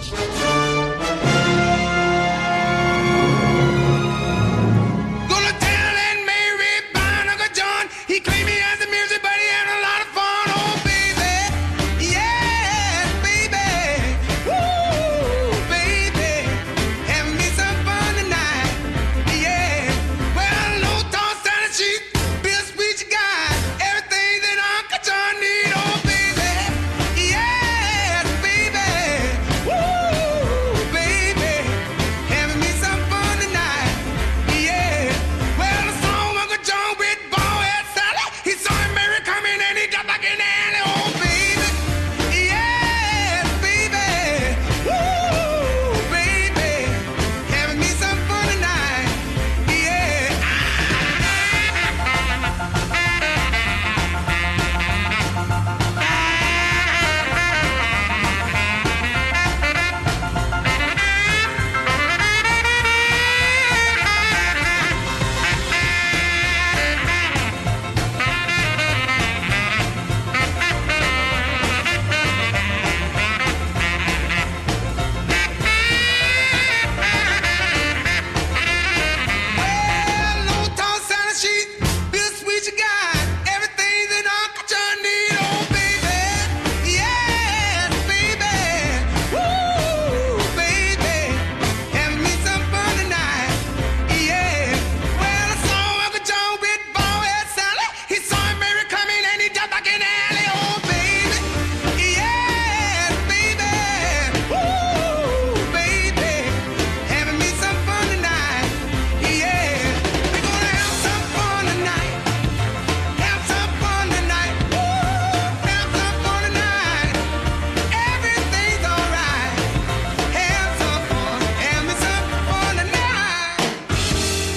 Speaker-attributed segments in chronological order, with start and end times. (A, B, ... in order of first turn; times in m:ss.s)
0:05.3-0:51.3 A
1:19.5-1:52.3 A
1:53.2-1:57.2 A
1:57.9-1:59.8 A
2:00.3-2:03.8 A